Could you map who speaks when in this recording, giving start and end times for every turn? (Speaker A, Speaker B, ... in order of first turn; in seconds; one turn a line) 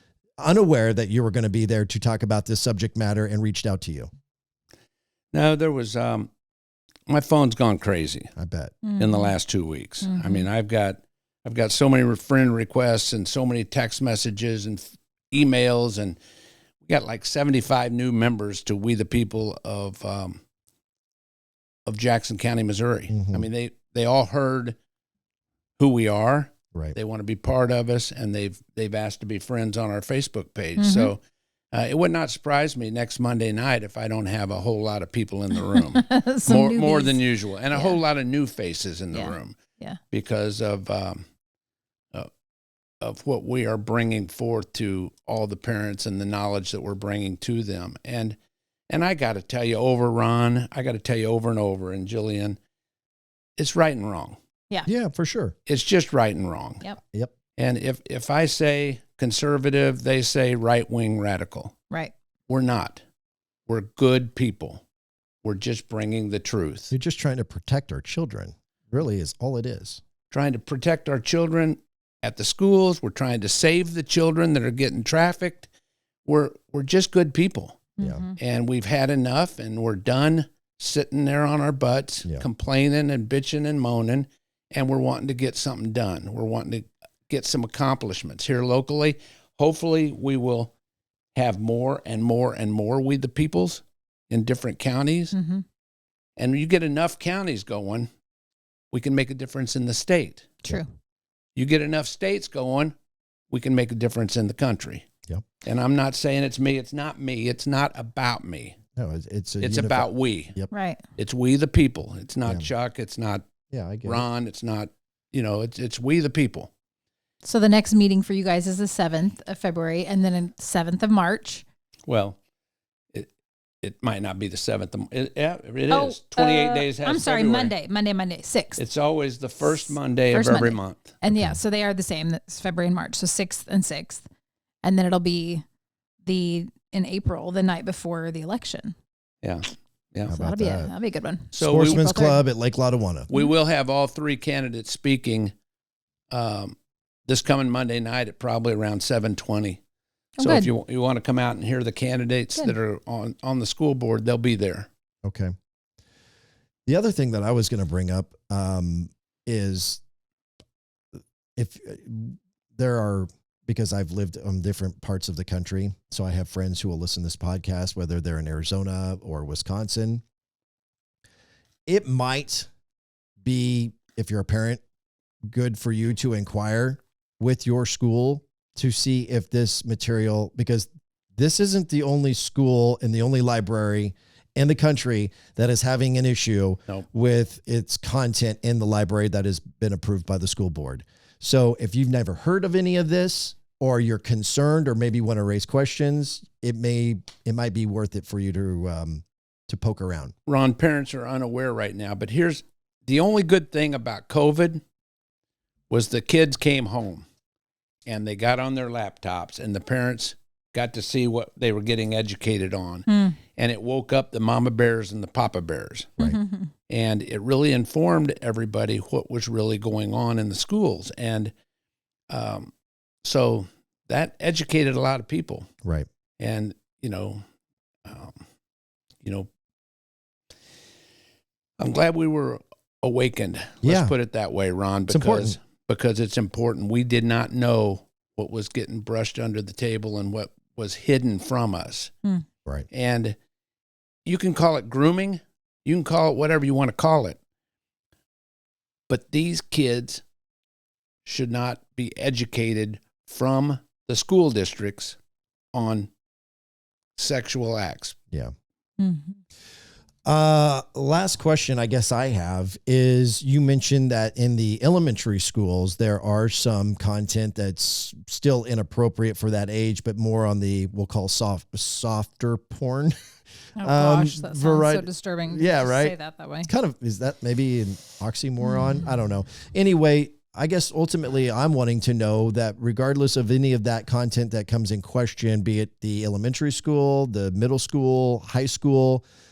Speaker A: 0.4-4.1
Speaker B: 5.3-6.3
Speaker B: 7.1-8.3
Speaker A: 8.3-8.7
Speaker C: 8.8-9.3
Speaker B: 9.0-16.2
Speaker C: 10.0-10.4
Speaker B: 16.9-20.4
Speaker B: 21.9-24.8
Speaker A: 23.1-23.5
Speaker B: 25.8-31.2
Speaker C: 30.8-31.1
Speaker B: 31.7-39.5
Speaker C: 35.8-37.2
Speaker C: 37.7-38.0
Speaker C: 39.1-40.0
Speaker B: 40.1-41.2
Speaker B: 43.0-48.4
Speaker B: 48.9-52.6
Speaker B: 53.6-54.4
Speaker A: 54.8-55.5
Speaker B: 55.7-56.8
Speaker B: 57.6-61.7
Speaker B: 62.5-63.0
Speaker B: 63.7-64.8
Speaker B: 65.4-66.9
Speaker A: 66.9-70.0
Speaker B: 70.3-75.7
Speaker B: 76.2-90.7
Speaker C: 78.0-78.4
Speaker B: 91.3-95.3
Speaker C: 95.3-95.6
Speaker B: 96.4-98.1
Speaker B: 98.9-100.6
Speaker B: 101.5-102.9
Speaker B: 103.5-105.0
Speaker B: 105.6-108.8
Speaker A: 109.0-110.7
Speaker B: 109.6-110.5
Speaker C: 110.7-111.0
Speaker B: 111.2-113.4
Speaker A: 113.7-114.2
Speaker B: 114.0-116.7
Speaker C: 117.4-121.6
Speaker B: 122.1-122.4
Speaker B: 123.8-127.7
Speaker C: 125.9-128.8
Speaker B: 128.8-131.2
Speaker C: 129.7-134.2
Speaker A: 131.3-131.6
Speaker C: 134.8-135.6
Speaker C: 136.2-138.9
Speaker B: 139.4-140.3
Speaker A: 140.3-140.9
Speaker C: 140.3-142.4
Speaker B: 141.5-142.2
Speaker A: 141.5-143.3
Speaker B: 143.3-145.5
Speaker B: 146.3-146.8
Speaker B: 147.3-149.8
Speaker C: 150.4-150.7
Speaker B: 150.4-154.9
Speaker A: 155.2-155.5
Speaker A: 156.9-160.0
Speaker A: 161.6-170.2
Speaker A: 171.9-172.7
Speaker A: 173.4-174.8
Speaker A: 175.5-200.3
Speaker B: 200.5-204.8
Speaker B: 205.9-207.2
Speaker B: 208.1-216.2
Speaker C: 213.1-213.4
Speaker C: 216.2-216.7
Speaker B: 216.9-221.5
Speaker B: 222.3-222.7
Speaker B: 223.2-225.7
Speaker B: 226.4-227.4
Speaker B: 228.0-228.4
Speaker B: 229.2-229.5
Speaker B: 231.8-242.1
Speaker A: 233.8-234.1
Speaker A: 235.1-235.6
Speaker B: 242.9-243.3
Speaker B: 244.2-247.4
Speaker B: 249.1-250.2
Speaker B: 251.2-255.2
Speaker B: 255.7-256.1
Speaker B: 257.2-258.1
Speaker C: 259.0-259.4
Speaker A: 260.2-273.1
Speaker C: 273.8-276.7
Speaker A: 273.8-276.1
Speaker A: 276.6-289.2